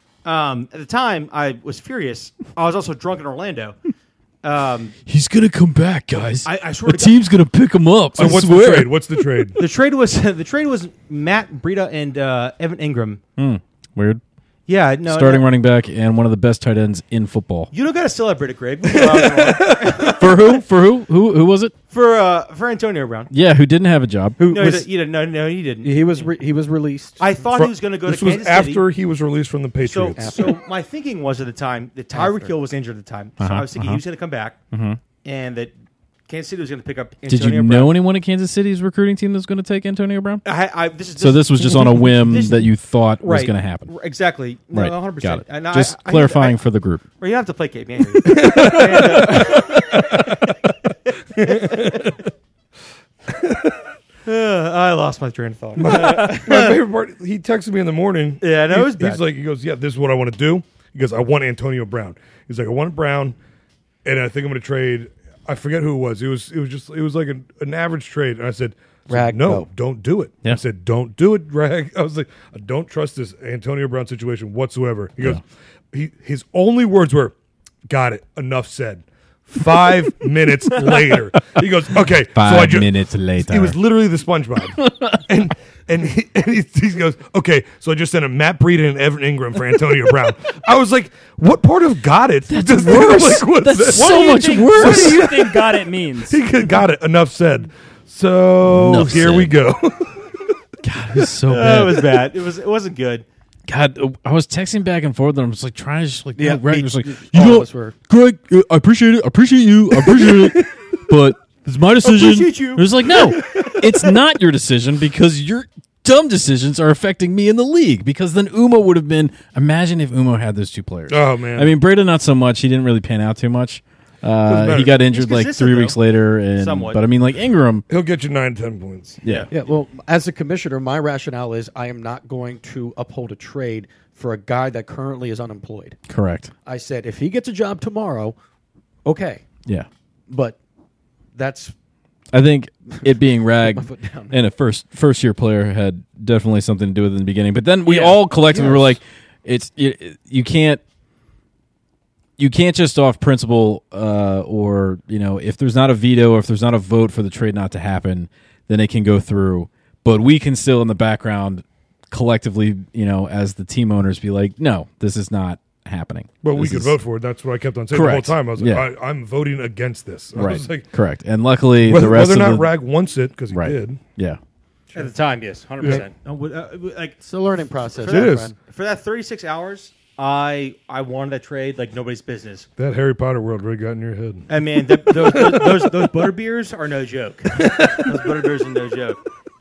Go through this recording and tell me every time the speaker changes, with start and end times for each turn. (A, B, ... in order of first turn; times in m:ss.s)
0:00.2-0:03.8 A
0:04.4-0:05.0 A
0:05.1-0:09.1 B
0:06.4-0:07.2 A
0:08.2-0:09.6 C
0:09.6-0:13.2 A
0:13.4-0:14.2 B
0:14.7-0:15.5 A
0:15.0-0:17.7 B
0:17.7-0:20.6 A
0:18.9-0:20.2 C
0:20.1-0:21.7 B
0:21.9-0:23.3 A
0:23.3-0:24.4 B
0:24.4-0:24.9 D
0:24.4-0:26.3 A
0:25.8-0:27.3 D
0:27.2-0:28.8 A
0:27.5-0:30.4 C
0:29.8-0:34.6 A
0:30.2-0:30.6 D
0:32.1-0:32.5 D
0:33.4-0:34.0 B
0:34.7-0:35.0 B
0:35.2-0:35.7 A
0:36.3-0:38.0 A
0:37.3-0:40.5 B
0:40.4-0:46.6 A
0:41.2-0:43.9 B
0:44.7-0:47.0 B
0:47.2-0:50.4 A
0:48.2-0:50.5 C
0:51.4-0:52.0 A
0:51.4-0:52.2 C
0:53.3-0:53.8 C
0:54.2-0:56.8 A
0:55.8-1:03.4 C
0:58.4-0:59.2 A
1:04.0-1:17.3 C
1:09.1-1:09.7 D
1:17.9-1:35.6 C
1:22.3-1:23.8 B
1:24.8-1:25.2 B
1:32.5-1:35.3 B
1:34.0-1:36.4 E
1:36.3-1:40.5 C
1:38.7-1:39.6 B
1:40.8-1:42.2 B
1:41.5-1:43.2 A
1:43.7-2:07.9 B
1:46.4-1:48.0 D
1:52.0-1:53.6 A
2:01.1-2:01.8 C
2:04.5-2:05.0 C
2:05.1-2:07.0 A
2:07.9-2:09.2 C
2:09.5-2:16.0 D
2:16.1-2:16.5 B
2:16.6-2:18.4 D
2:19.0-2:19.4 D
2:20.3-2:20.6 D
2:21.3-2:21.8 D
2:22.3-2:30.8 B
2:23.0-2:24.4 D
2:28.0-2:29.0 D
2:32.4-2:47.0 B
2:46.4-2:50.9 C
2:47.9-2:48.9 B
2:50.3-2:52.8 B
2:51.8-2:54.0 C
2:53.5-2:54.4 B
2:54.9-2:57.2 A
2:57.2-2:58.6 D
2:58.0-3:02.7 A
2:58.0-2:58.5 C
3:02.8-3:05.9 C
3:04.5-3:09.2 A
3:07.6-3:08.1 C